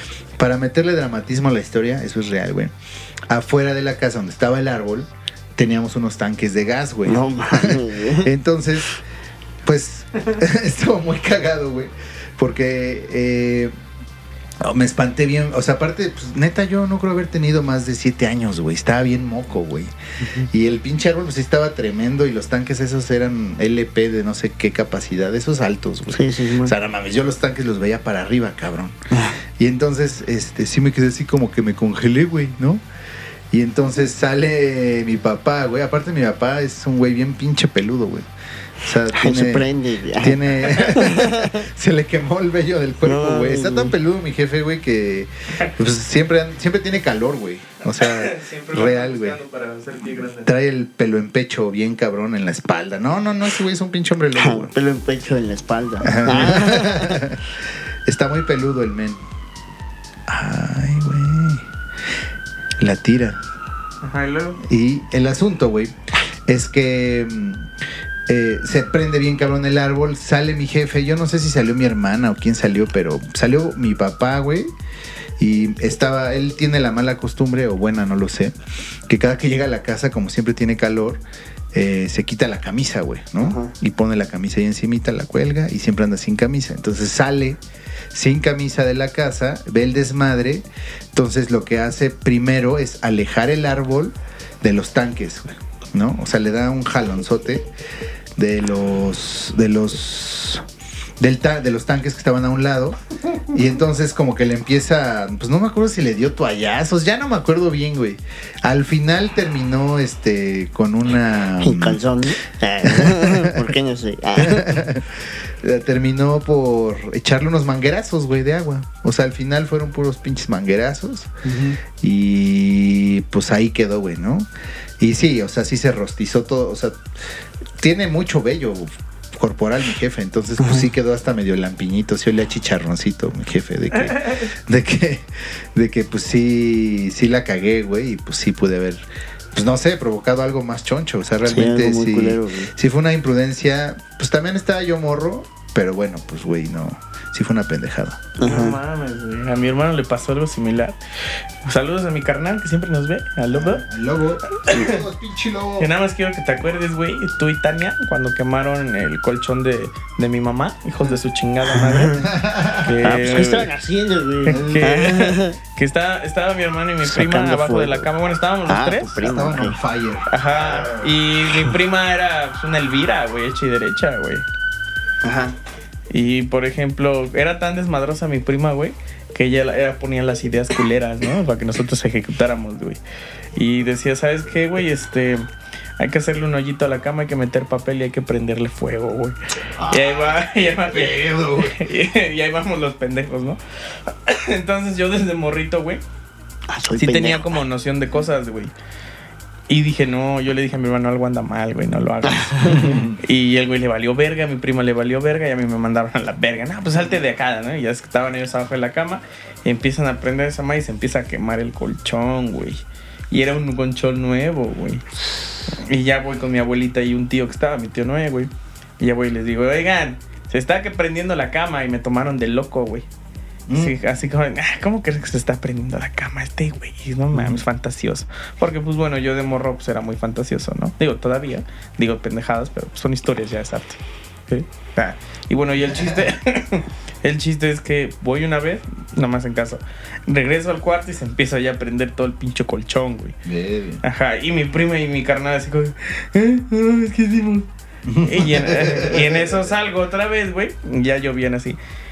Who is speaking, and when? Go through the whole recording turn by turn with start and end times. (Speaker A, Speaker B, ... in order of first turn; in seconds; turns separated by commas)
Speaker A: 0.4-2.7, Speaker A: 3.3-9.0, Speaker B: 7.0-8.3, Speaker A: 9.6-13.7, Speaker A: 14.6-19.9, Speaker A: 20.4-28.9, Speaker B: 26.1-26.7, Speaker B: 29.1-29.4, Speaker A: 29.6-32.8, Speaker A: 33.5-38.2, Speaker A: 38.8-49.4, Speaker B: 39.1-41.6, Speaker B: 43.0-43.9, Speaker C: 47.9-50.5, Speaker A: 50.4-54.7, Speaker B: 54.3-57.2, Speaker A: 56.0-57.5, Speaker A: 58.0-59.2, Speaker A: 60.3-61.6, Speaker A: 62.8-63.4, Speaker C: 64.0-64.6, Speaker A: 64.6-65.9, Speaker A: 66.5-67.7, Speaker A: 68.3-74.7, Speaker A: 75.4-78.5, Speaker A: 79.1-81.2, Speaker A: 81.7-87.6, Speaker B: 83.4-83.7, Speaker A: 88.1-97.7, Speaker A: 98.3-100.6, Speaker A: 101.2-103.0, Speaker A: 103.5-112.0, Speaker B: 111.6-114.8, Speaker A: 112.8-113.7, Speaker A: 114.3-121.3, Speaker B: 121.4-121.8, Speaker A: 122.0-124.5, Speaker A: 125.0-127.0, Speaker A: 127.8-148.2, Speaker B: 130.6-130.9, Speaker C: 134.0-134.4, Speaker B: 141.4-142.7, Speaker B: 148.4-148.8, Speaker C: 148.4-150.9, Speaker C: 151.6-153.8, Speaker A: 153.5-155.9, Speaker C: 154.6-155.0, Speaker C: 155.8-162.2, Speaker B: 161.6-162.2, Speaker A: 162.2-163.0, Speaker C: 162.8-163.7, Speaker B: 163.0-165.6, Speaker C: 164.4-169.2, Speaker A: 164.5-164.8, Speaker B: 167.0-168.1, Speaker B: 168.7-169.8, Speaker A: 169.2-170.3, Speaker C: 170.3-174.4, Speaker B: 175.2-175.6, Speaker C: 176.1-183.0, Speaker C: 183.6-185.4, Speaker C: 186.0-196.0, Speaker A: 189.8-190.2, Speaker A: 190.9-191.8, Speaker B: 196.7-197.6, Speaker C: 196.9-198.7, Speaker C: 199.7-215.0, Speaker B: 202.2-202.9, Speaker A: 202.7-203.2, Speaker C: 215.7-223.0, Speaker A: 223.7-224.0, Speaker C: 223.7-243.3, Speaker A: 227.3-227.6, Speaker A: 243.4-244.0, Speaker C: 244.0-247.7, Speaker A: 248.1-249.5, Speaker C: 248.2-251.8